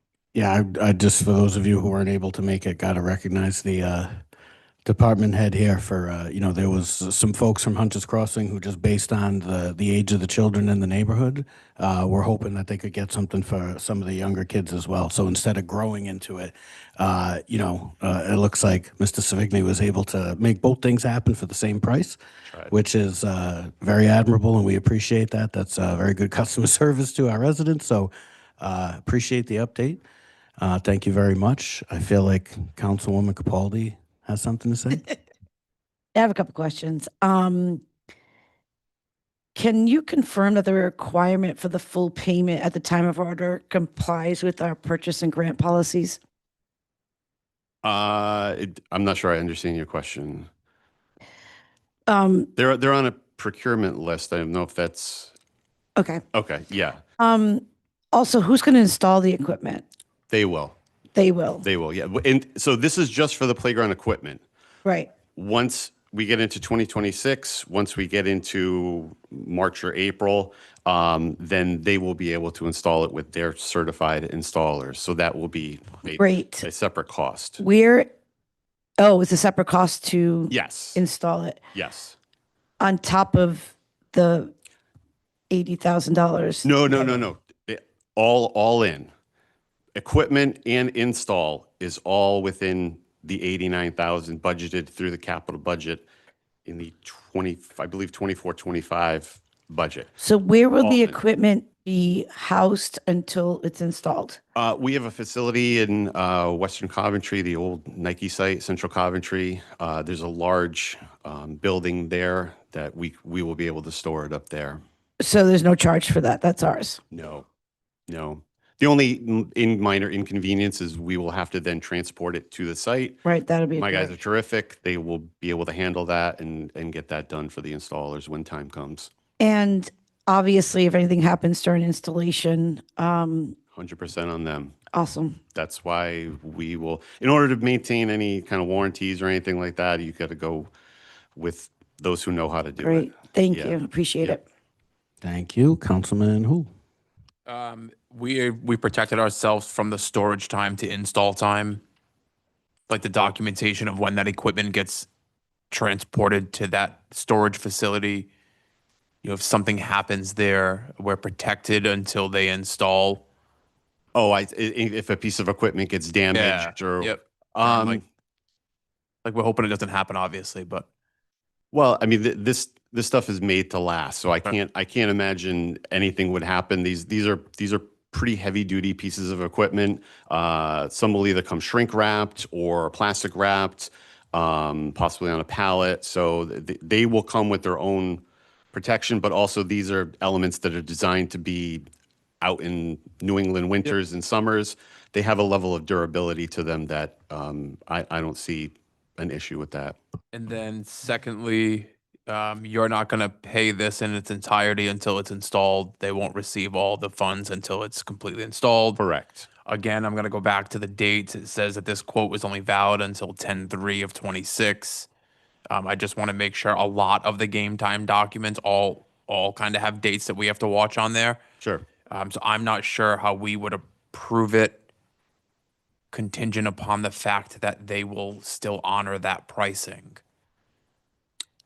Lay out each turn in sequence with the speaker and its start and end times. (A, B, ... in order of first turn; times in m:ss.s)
0:00.3-0:04.2 A
0:04.8-0:22.2 A
0:22.4-0:22.7 B
0:22.7-0:30.0 A
0:30.6-0:35.0 A
0:36.1-0:37.8 C
0:39.5-0:46.2 C
0:47.8-0:50.5 B
0:52.1-0:52.5 C
0:52.6-0:55.3 B
0:56.0-0:56.2 C
0:56.3-0:57.0 B
0:57.2-0:59.8 C
1:00.3-1:00.8 B
1:01.1-1:01.6 C
1:01.6-1:04.4 B
1:04.8-1:05.1 C
1:05.3-1:17.6 B
1:16.2-1:16.7 C
1:17.6-1:18.1 C
1:19.0-1:21.6 C
1:20.5-1:21.0 B
1:21.7-1:22.2 B
1:22.8-1:24.5 C
1:25.5-1:27.2 C
1:26.6-1:29.1 B
1:29.9-1:36.1 B
1:36.6-1:40.1 B
1:40.2-1:44.4 C
1:40.8-1:41.2 B
1:44.5-1:54.8 B
1:55.2-1:57.0 C
1:57.1-1:57.4 B
1:58.1-2:03.2 B
2:03.2-2:04.1 C
2:03.8-2:09.1 B
2:09.4-2:13.6 C
2:13.8-2:14.7 B
2:14.9-2:15.4 C
2:15.5-2:20.7 B
2:21.4-2:24.4 B
2:22.8-2:24.4 C
2:25.2-2:26.7 A
2:27.4-2:31.8 D
2:32.9-2:35.1 D
2:35.7-2:38.3 D
2:39.2-2:43.2 D
2:44.1-2:48.0 B
2:46.3-2:48.0 D
2:49.2-2:50.9 D
2:51.7-3:08.2 B
3:08.7-3:11.8 B
3:12.4-3:20.0 B
3:20.3-3:29.0 D
3:29.0-3:29.5 B
3:29.6-3:35.1 D
3:35.7-3:41.4 D
3:42.1-3:44.8 D
3:46.1-3:50.2 D